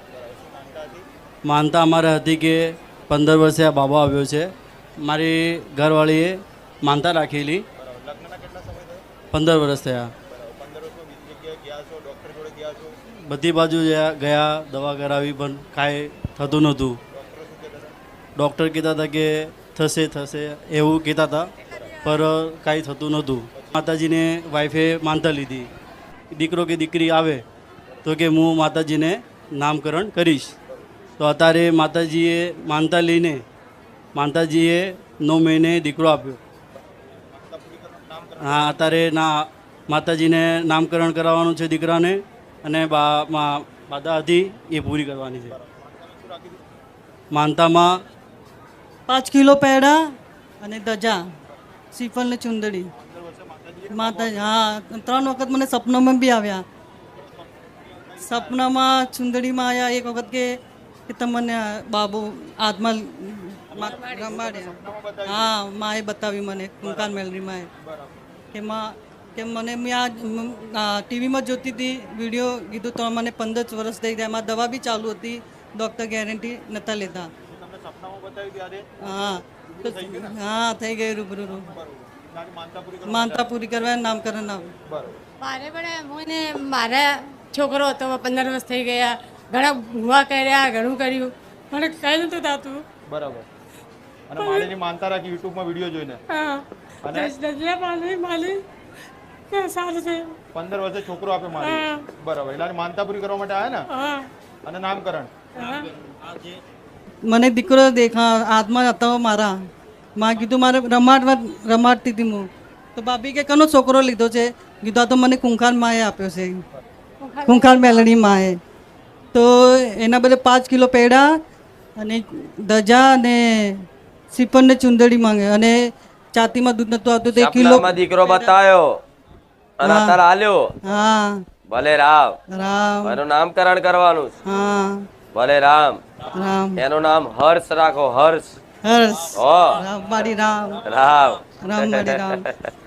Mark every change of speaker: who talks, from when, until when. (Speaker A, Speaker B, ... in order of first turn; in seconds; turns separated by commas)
Speaker A: 0.1-1.1, Speaker B: 1.5-7.7, Speaker A: 7.8-9.0, Speaker B: 9.3-10.1, Speaker A: 10.3-12.9, Speaker B: 13.3-17.0, Speaker A: 17.1-18.0, Speaker B: 18.4-21.5, Speaker B: 22.0-25.7, Speaker A: 23.5-23.8, Speaker B: 26.3-27.4, Speaker B: 28.1-30.6, Speaker B: 31.2-33.4, Speaker B: 34.1-36.4, Speaker A: 36.8-39.1, Speaker B: 38.4-45.5, Speaker A: 45.5-46.6, Speaker B: 47.3-48.0, Speaker C: 49.1-50.0, Speaker C: 50.6-51.2, Speaker C: 51.9-52.9, Speaker A: 53.0-54.5, Speaker C: 53.9-56.6, Speaker A: 57.1-58.8, Speaker C: 58.2-60.5, Speaker C: 61.1-67.7, Speaker A: 63.7-65.5, Speaker A: 66.8-67.3, Speaker A: 67.8-68.1, Speaker C: 68.5-77.3, Speaker A: 77.5-78.9, Speaker C: 79.0-81.7, Speaker A: 79.5-80.4, Speaker A: 81.5-83.5, Speaker C: 83.1-84.7, Speaker A: 84.9-85.2, Speaker D: 85.4-92.8, Speaker A: 93.1-93.5, Speaker A: 94.3-96.2, Speaker D: 94.4-94.7, Speaker D: 96.3-98.6, Speaker A: 97.0-97.4, Speaker D: 99.5-100.4, Speaker A: 100.5-103.8, Speaker D: 101.6-102.0, Speaker D: 104.0-104.3, Speaker A: 104.7-105.3, Speaker D: 105.6-105.9, Speaker C: 107.2-109.6, Speaker C: 110.2-116.6, Speaker D: 117.2-118.1, Speaker C: 117.4-118.6, Speaker C: 119.3-121.3, Speaker C: 122.0-128.6, Speaker E: 127.3-128.9, Speaker E: 129.8-130.7, Speaker C: 129.8-130.2, Speaker C: 130.8-131.4, Speaker E: 131.7-132.4, Speaker C: 132.5-133.2, Speaker E: 133.0-134.3, Speaker C: 134.5-135.1, Speaker E: 135.3-136.0, Speaker C: 136.3-136.8, Speaker E: 136.8-138.5, Speaker C: 138.8-140.8, Speaker E: 139.4-139.8, Speaker E: 140.9-142.4, Speaker C: 141.6-142.5